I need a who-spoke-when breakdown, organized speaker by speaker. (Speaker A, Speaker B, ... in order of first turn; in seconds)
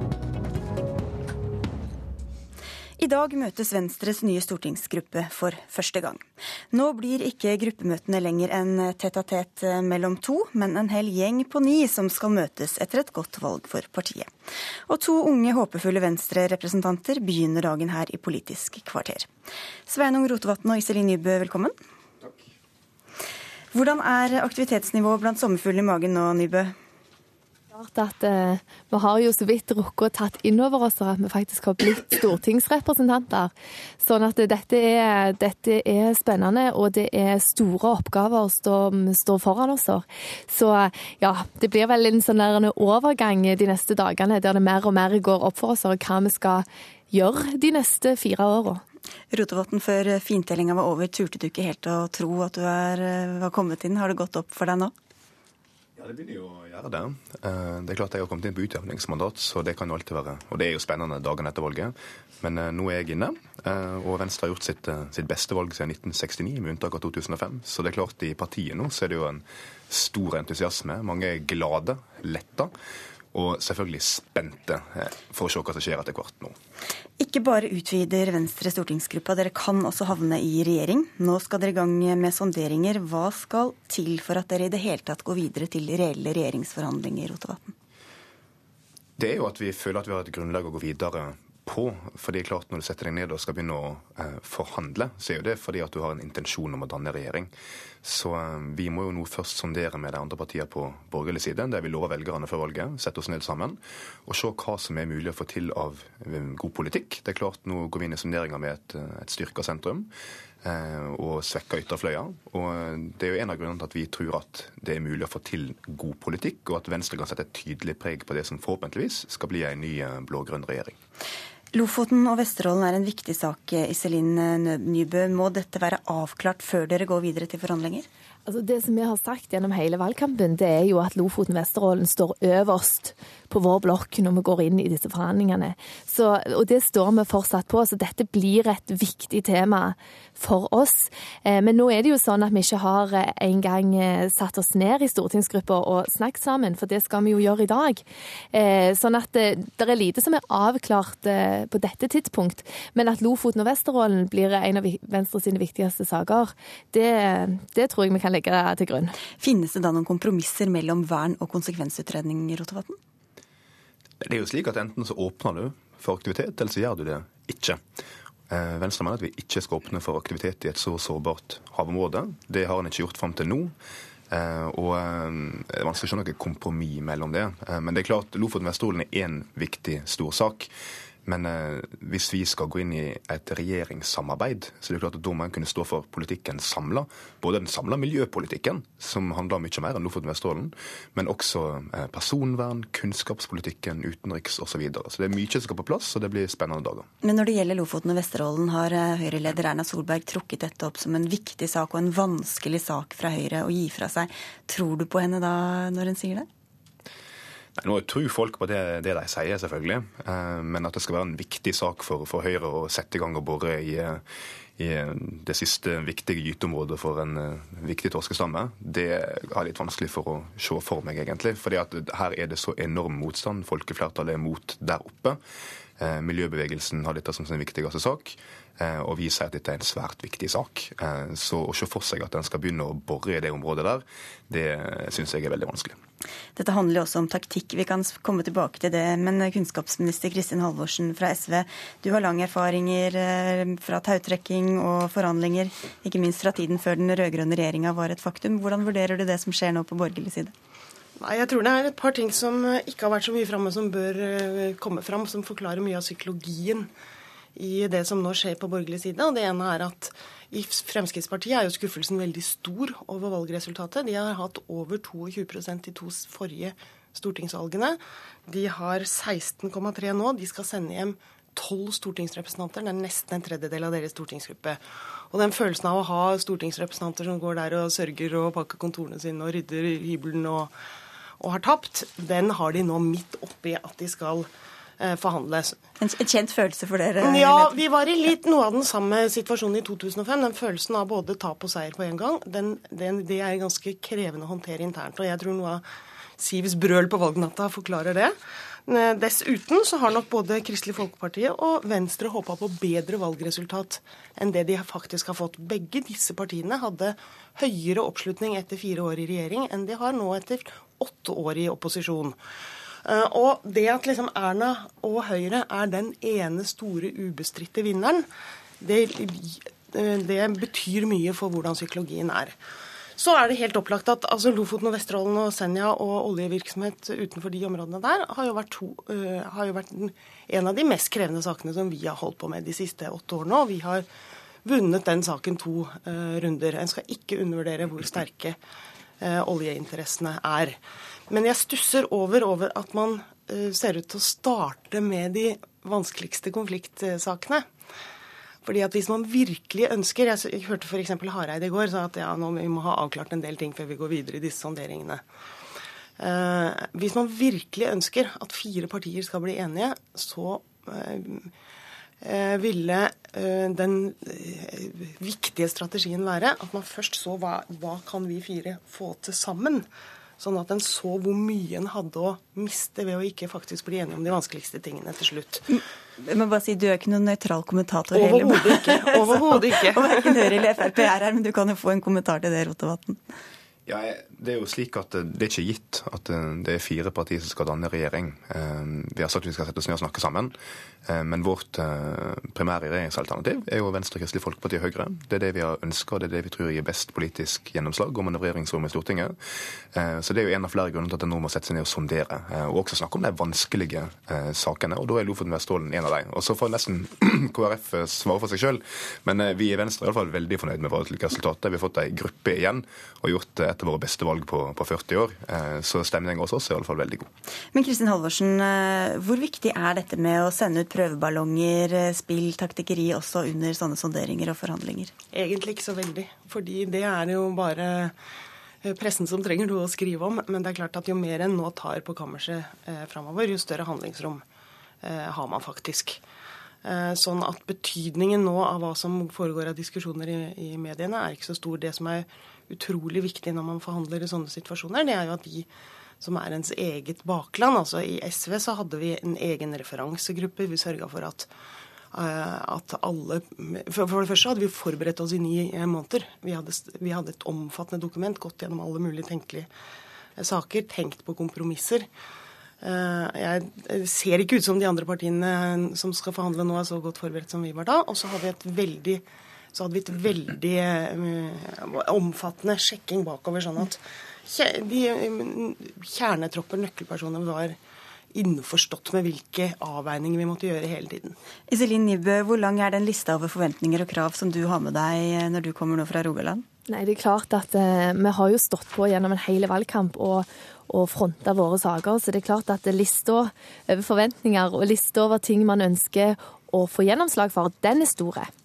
Speaker A: 3.0-14.3, 14.9-19.3, 19.9-21.8, 23.7-26.8, 49.3-54.9, 77.2-87.7, 121.7-128.1, 159.4-163.0, 197.2-206.5, 236.6-250.5, 286.0-287.8, 376.2-383.2, 417.7-425.1, 481.7-486.6
Speaker B: 27.7-48.8, 128.5-159.1, 486.9-498.5
Speaker C: 56.0-72.7, 73.3-76.5, 89.2-97.5, 98.0-110.1, 110.6-121.0, 164.2-167.8, 168.5-173.7, 174.3-180.7, 181.3-197.1, 207.8-214.2, 214.8-225.4, 226.0-236.0, 383.9-390.6, 391.1-399.4, 399.9-417.3
Speaker D: 251.2-256.9, 257.6-280.7, 281.4-284.5, 285.0-285.8, 287.2-295.8, 296.4-298.4, 298.9-312.4, 313.1-318.3, 318.8-322.6, 323.2-334.1, 334.6-338.6, 339.2-340.8, 341.3-347.7, 348.6-355.2, 356.2-361.5, 362.2-369.9, 370.4-375.7, 378.1-380.7, 425.3-428.1, 428.8-434.4, 435.0-436.2, 436.8-445.7, 446.2-451.5, 452.1-459.7, 460.4-462.1, 462.8-469.2, 469.7-477.8, 478.3-481.3